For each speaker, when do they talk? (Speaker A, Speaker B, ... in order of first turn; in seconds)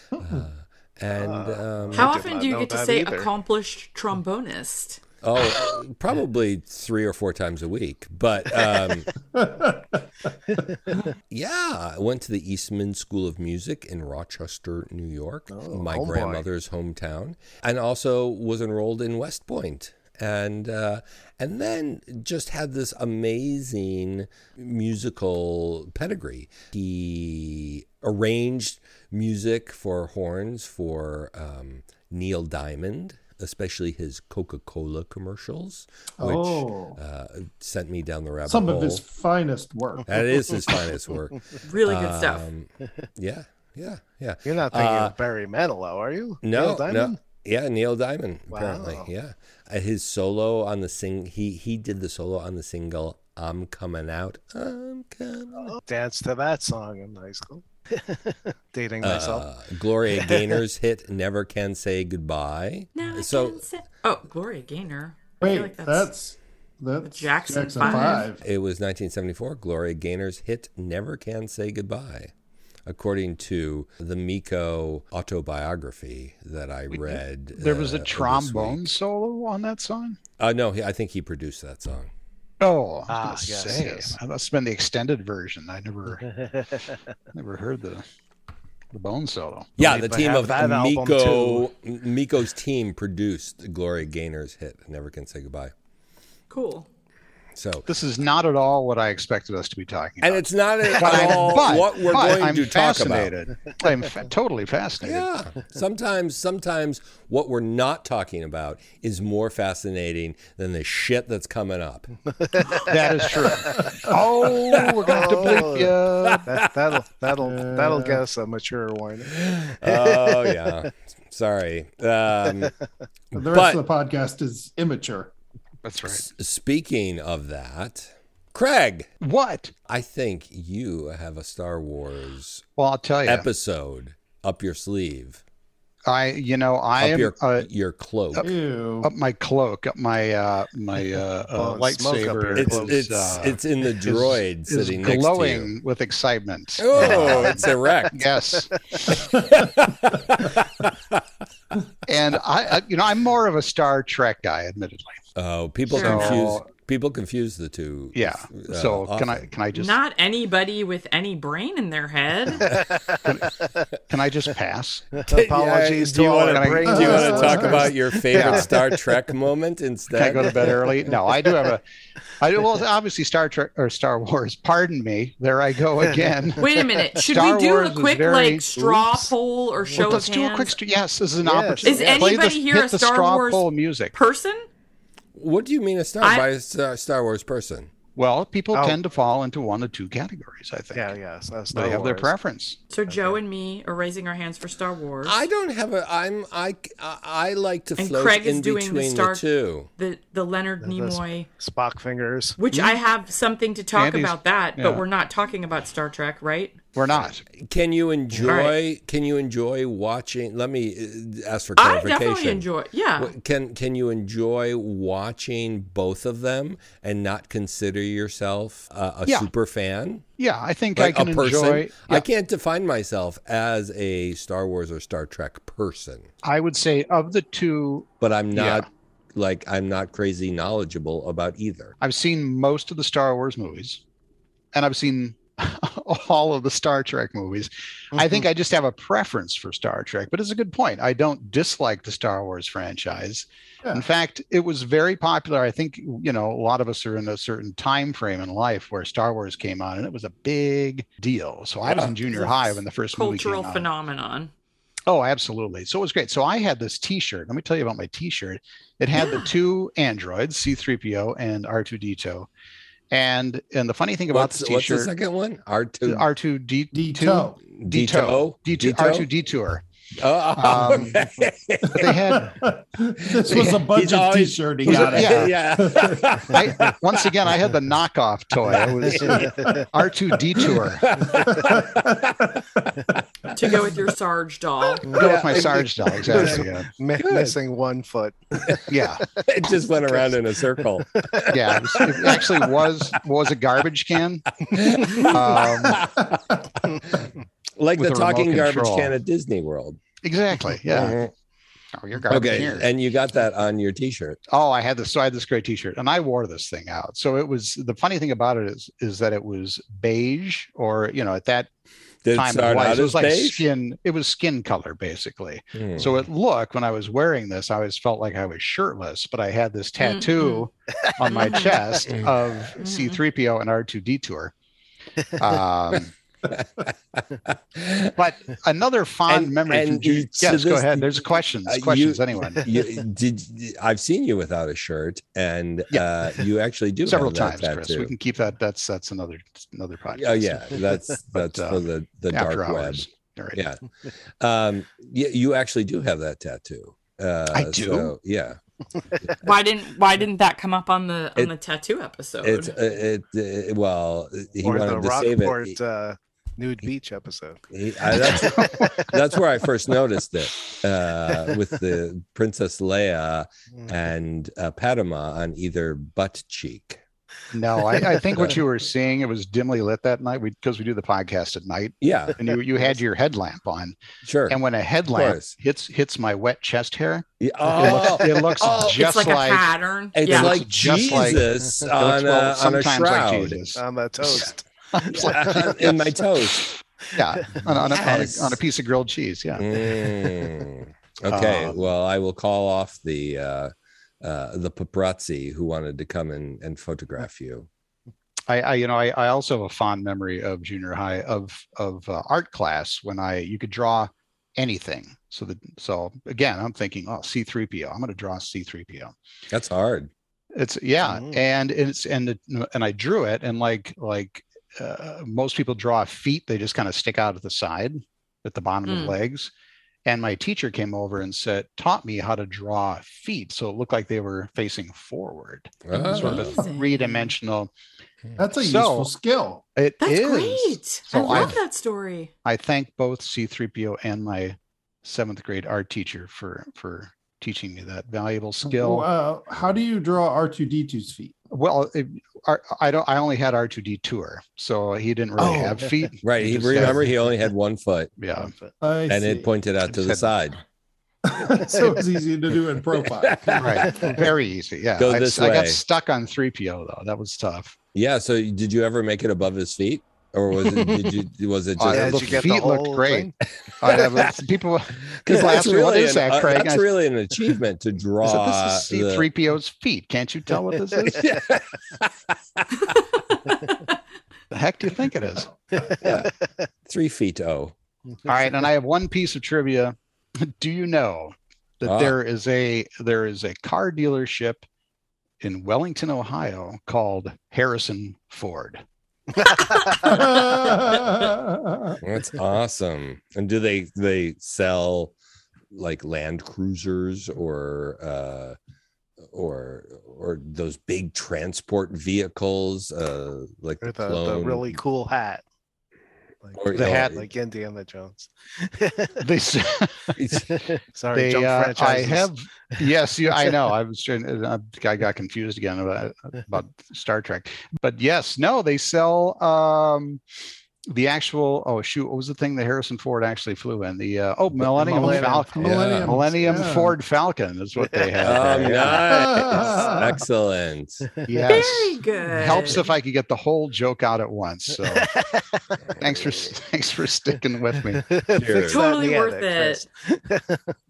Speaker A: 0.2-0.5, 9.3-10.3, 36.2-37.0, 38.5-40.2, 65.4-68.4, 113.8-114.2, 117.4-118.2, 123.3-125.3, 138.4-139.1, 166.9-167.8, 266.9-267.6, 271.9-276.3, 281.3-283.1, 426.2-426.6, 428.4-429.6, 438.6-441.4, 448.8-449.5, 451.2-453.8, 490.0-492.0, 524.8-526.9, 529.1-530.1
Speaker B: 0.2-2.1, 5.2-9.1, 11.3-39.0, 40.0-45.1, 46.4-55.8, 59.0-63.6, 67.8-72.3, 72.9-78.9, 80.4-82.1, 89.8-95.7, 97.6-97.9, 100.2-103.3, 105.0-112.1, 114.7-115.0, 116.2-116.7, 119.3-122.7, 123.3-123.8, 126.1-129.1, 129.9-132.7, 133.2-135.4, 137.0-138.5, 142.5-145.7, 146.8-148.2, 149.1-151.2, 155.4-159.4, 165.3-170.8, 185.3-187.9, 195.2-199.9, 207.2-212.7, 213.2-220.2, 221.0-226.3, 228.2-232.0, 264.3-266.3, 267.7-269.3, 270.2-272.3, 273.3-277.3, 278.8-279.7, 280.6-282.6, 285.1-287.6, 289.4-292.5, 294.6-297.3, 297.8-300.0, 300.9-301.3, 302.3-304.4, 312.2-313.7, 315.8-316.2, 326.5-328.2, 329.3-338.1, 340.1-343.8, 344.4-348.6, 352.4-355.8, 357.7-367.0, 372.0-372.4, 374.2-374.6, 375.1-375.6, 377.4-379.0, 380.2-383.6, 385.0-386.7, 387.7-388.6, 389.6-397.7, 409.5-410.1, 425.9-426.5, 431.3-431.6, 446.2-448.2, 449.1-450.6, 453.2-454.1, 455.0-455.8, 457.9-462.5, 465.2-469.3, 471.1-473.0, 476.0-476.3, 476.9-477.7, 481.9-482.2, 492.0-495.1, 495.7-498.6, 499.3-504.8, 506.5-507.2, 510.2-510.5, 525.6-526.2, 528.2-531.1, 538.3-538.9
Speaker C: 1.1-3.3, 10.5-11.1, 15.5-16.4, 44.5-47.2, 48.5-49.1, 55.7-59.5, 60.0-60.6, 83.1-84.2, 86.2-86.9, 89.8-91.7, 112.4-112.9, 115.0-120.8, 141.6-143.0, 147.0-147.7, 162.6-163.4, 165.2-168.8, 170.7-171.1, 176.1-176.8, 181.4-182.4, 190.9-192.3, 193.1-193.4, 200.8-202.6, 238.2-238.4, 279.3-279.9, 285.1-285.6, 286.2-290.4, 291.1-291.8, 354.6-357.6, 358.2-358.5, 381.1-381.4, 383.8-386.1, 387.2-387.5, 411.1-411.4, 445.4-446.1, 448.4-448.7, 453.9-454.2, 460.6-461.1, 461.9-463.3, 475.7-476.3, 489.4-490.3, 503.8-505.4, 506.4-509.2, 510.6-512.9, 524.8-525.6, 527.9-528.4, 529.4-530.2, 534.9-535.5, 537.9-540.8
Speaker D: 1.9-5.8, 41.6-42.5, 63.0-66.1, 67.0-68.3, 96.5-96.9, 155.9-156.3, 159.7-162.7, 176.6-180.8, 181.8-184.7, 186.2-186.5, 192.9-195.4, 198.0-199.4, 200.0-201.5, 202.6-206.8, 208.5-208.8, 211.8-213.3, 252.3-254.5, 283.5-285.1, 320.0-320.7, 321.3-321.8, 322.8-323.2, 349.4-352.8, 378.8-380.6, 418.9-419.2, 426.1-427.2, 430.0-432.3, 531.5-532.9, 538.6-539.8
Speaker E: 76.9-80.2, 82.6-86.2, 87.3-88.0, 88.9-89.8, 97.9-105.3, 112.8-116.5, 125.8-126.2, 129.2-129.7, 132.8-133.5, 136.1-137.7, 139.0-149.2, 152.1-155.2, 155.9-156.6, 158.2-160.0, 164.1-165.1, 166.5-167.6, 168.3-168.7, 170.1-171.8, 172.4-179.3, 179.9-184.2, 188.2-191.2, 191.7-192.8, 203.9-205.1, 207.0-207.4, 220.4-222.2, 226.4-228.8, 232.0-234.0, 234.7-253.9, 255.1-262.5, 263.1-265.1, 266.1-269.8, 270.6-271.2, 271.9-272.6, 273.5-273.8, 274.8-275.6, 276.5-281.1, 285.1-286.9, 288.9-289.3, 291.5-294.5, 295.0-296.0, 298.0-299.1, 300.2-301.2, 301.9-302.9, 304.5-311.7, 312.3-324.5, 325.4-326.1, 328.1-332.7, 337.1-343.6, 347.5-348.1, 358.2-359.0, 367.5-379.7, 380.3-385.4, 387.1-389.8, 391.3-391.9, 398.5-409.1, 410.5-419.5, 420.1-427.7, 428.6-429.1, 429.8-431.6, 432.4-439.1, 441.5-447.1, 448.2-448.5, 449.9-450.3, 453.6-457.8, 461.8-466.9, 468.2-471.3, 474.5-475.5, 478.3-484.6, 485.4-488.8, 509.2-510.2, 511.1-520.2, 520.9-529.3, 531.2-535.1, 536.0-538.0